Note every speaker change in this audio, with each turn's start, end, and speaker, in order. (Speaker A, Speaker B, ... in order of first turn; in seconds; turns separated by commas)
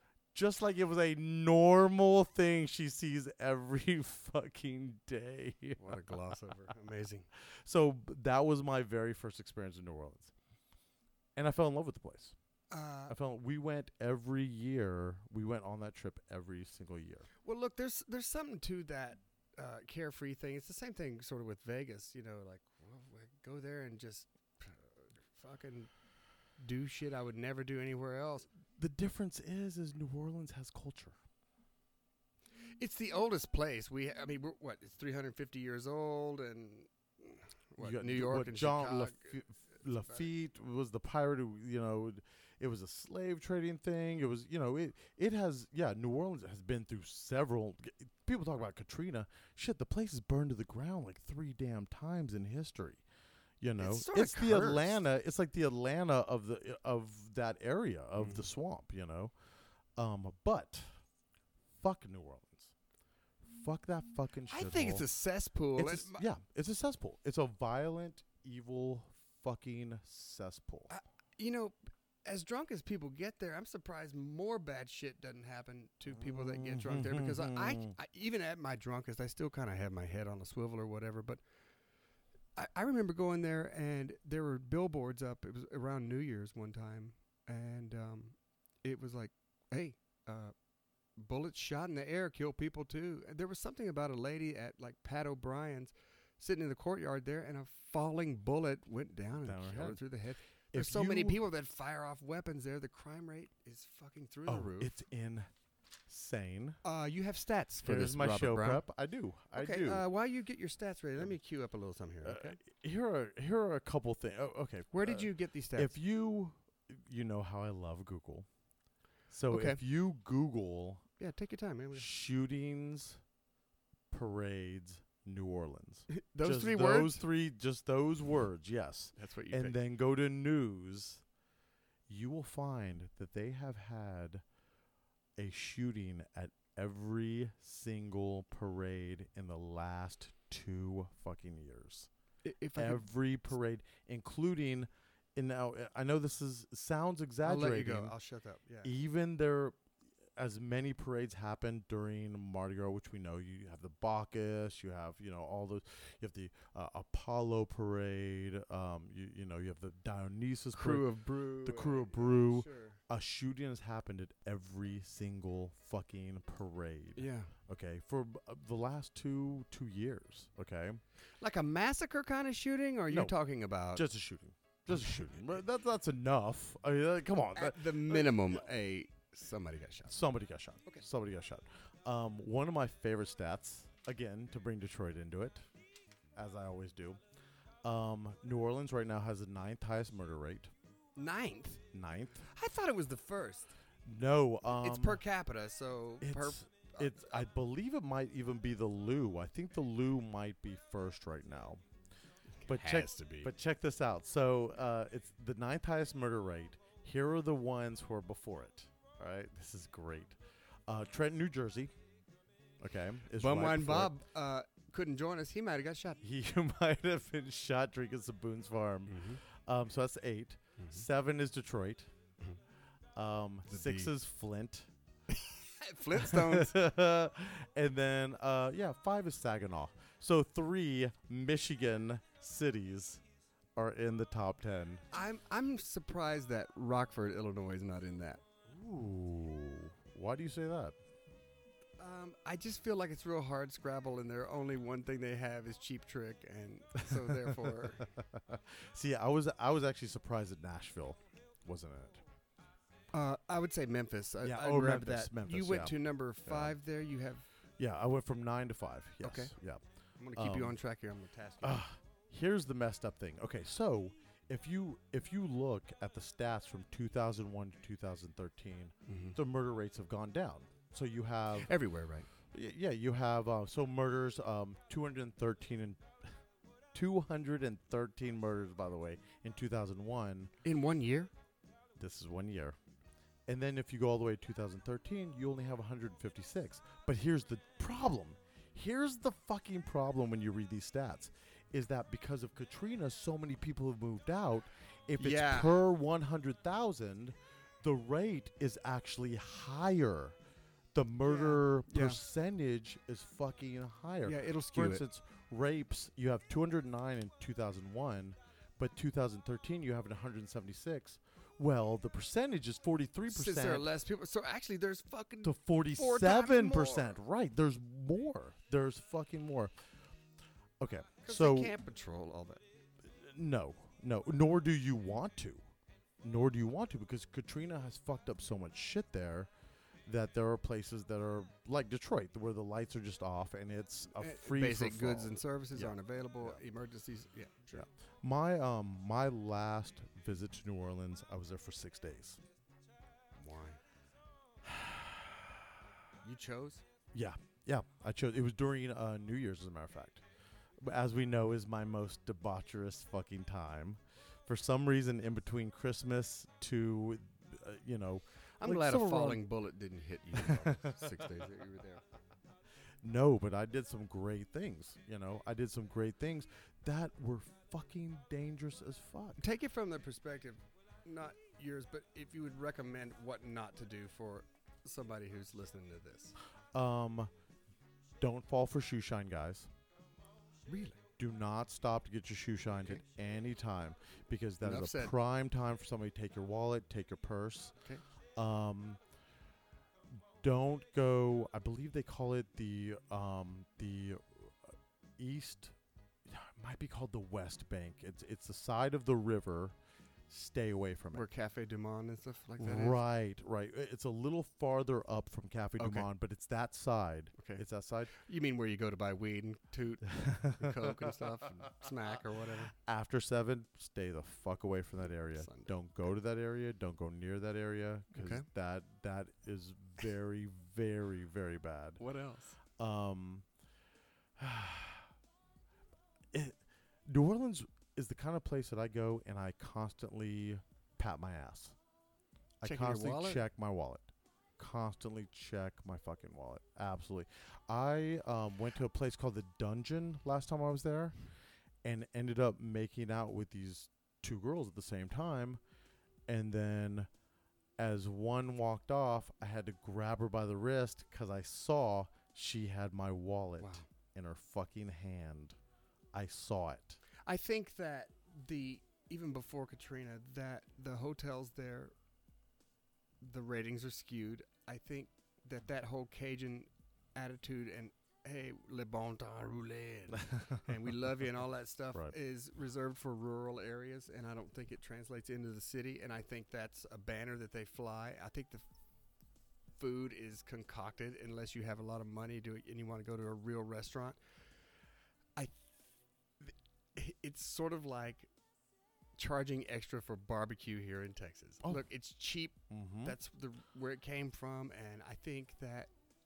Speaker A: 0.3-6.3, Speaker B: 5.8-7.3, Speaker A: 7.5-10.3, Speaker A: 11.4-12.4, Speaker B: 12.7-13.2, Speaker A: 13.1-17.3, Speaker B: 17.4-25.9, Speaker B: 26.6-28.5, Speaker A: 28.8-31.2, Speaker B: 32.8-39.4, Speaker A: 37.8-53.0, Speaker A: 53.6-59.3, Speaker B: 53.8-55.0, Speaker B: 58.2-58.4, Speaker A: 60.0-61.0, Speaker A: 61.8-62.7, Speaker A: 63.4-65.1, Speaker B: 64.5-66.2, Speaker A: 65.8-70.9, Speaker B: 70.9-81.4, Speaker A: 76.1-78.0, Speaker B: 82.6-90.5, Speaker B: 91.2-104.9, Speaker A: 99.4-100.0, Speaker A: 100.7-101.4, Speaker A: 104.5-105.5, Speaker A: 106.1-106.8, Speaker B: 106.8-108.8, Speaker A: 107.8-110.0, Speaker B: 109.5-112.6, Speaker A: 112.2-118.5, Speaker B: 114.9-116.0, Speaker A: 119.3-121.1, Speaker B: 119.5-119.8, Speaker B: 121.2-122.1, Speaker A: 121.9-123.2, Speaker A: 124.1-131.2, Speaker B: 126.1-127.2, Speaker B: 129.2-129.8, Speaker A: 132.1-134.4, Speaker A: 135.4-142.1, Speaker B: 142.4-143.1, Speaker A: 142.8-148.2, Speaker B: 147.4-148.9, Speaker A: 148.8-149.8, Speaker A: 150.4-171.0, Speaker B: 160.7-163.0, Speaker B: 167.2-167.5, Speaker B: 171.4-174.1, Speaker A: 173.1-173.3, Speaker A: 173.9-178.6, Speaker B: 174.9-175.2, Speaker B: 177.6-180.2, Speaker A: 180.1-185.7, Speaker A: 186.3-187.2, Speaker A: 187.8-190.7, Speaker B: 191.2-191.8, Speaker A: 191.9-192.4, Speaker B: 192.4-193.7, Speaker A: 194.1-195.2, Speaker B: 194.7-197.4, Speaker A: 196.2-201.8, Speaker B: 202.6-203.5, Speaker A: 202.7-211.9, Speaker A: 212.8-214.2, Speaker B: 213.3-216.2, Speaker A: 216.2-222.1, Speaker B: 219.1-219.4, Speaker B: 220.8-221.0, Speaker A: 223.2-224.9, Speaker B: 223.7-224.1, Speaker B: 225.3-226.8, Speaker A: 226.1-233.2, Speaker A: 233.8-235.1, Speaker B: 235.1-238.4, Speaker A: 238.7-241.0, Speaker B: 242.0-248.1, Speaker A: 247.1-252.2, Speaker B: 253.1-257.5, Speaker A: 254.4-256.8, Speaker A: 257.8-259.8, Speaker B: 259.2-259.5, Speaker B: 260.2-261.8, Speaker A: 260.4-260.8, Speaker A: 261.6-271.7, Speaker B: 269.1-269.4, Speaker B: 271.6-272.3, Speaker A: 272.5-276.4, Speaker A: 276.9-280.5, Speaker B: 280.6-281.3, Speaker A: 282.0-282.8, Speaker A: 283.5-300.4, Speaker B: 295.2-295.8, Speaker A: 300.9-313.9, Speaker B: 301.2-302.2, Speaker B: 304.2-305.1, Speaker B: 313.3-317.2, Speaker A: 315.4-319.8, Speaker A: 320.8-321.8, Speaker B: 321.2-322.6, Speaker A: 323.0-325.7, Speaker A: 326.2-329.5, Speaker A: 330.1-336.6, Speaker B: 334.1-337.9, Speaker A: 337.7-342.4, Speaker B: 343.4-343.8, Speaker A: 344.6-345.6, Speaker B: 346.2-346.8, Speaker A: 347.1-350.2, Speaker A: 350.8-359.4, Speaker B: 358.6-362.0, Speaker A: 360.4-361.4, Speaker A: 363.0-369.4, Speaker B: 369.4-376.4, Speaker A: 376.7-377.3, Speaker A: 378.2-379.7, Speaker B: 380.7-381.0, Speaker A: 381.2-387.8, Speaker B: 384.6-385.1, Speaker A: 388.4-389.0, Speaker A: 390.1-399.8, Speaker A: 400.3-401.3, Speaker B: 401.1-403.0, Speaker A: 402.6-408.1, Speaker B: 405.8-406.1, Speaker B: 407.4-412.8, Speaker A: 410.1-411.2, Speaker A: 412.7-422.0, Speaker B: 415.4-415.7, Speaker B: 418.1-418.5, Speaker B: 422.0-422.6, Speaker A: 422.8-423.4, Speaker A: 424.4-425.1, Speaker A: 426.3-431.8, Speaker A: 432.6-441.2, Speaker B: 432.6-433.4, Speaker A: 441.8-445.6, Speaker A: 446.3-447.1, Speaker A: 447.8-455.6, Speaker B: 453.6-453.9, Speaker A: 456.1-457.0, Speaker B: 457.2-461.9, Speaker B: 463.2-478.7, Speaker A: 470.3-470.6, Speaker B: 479.8-484.2, Speaker B: 486.4-488.3, Speaker B: 489.2-495.9, Speaker A: 492.7-493.2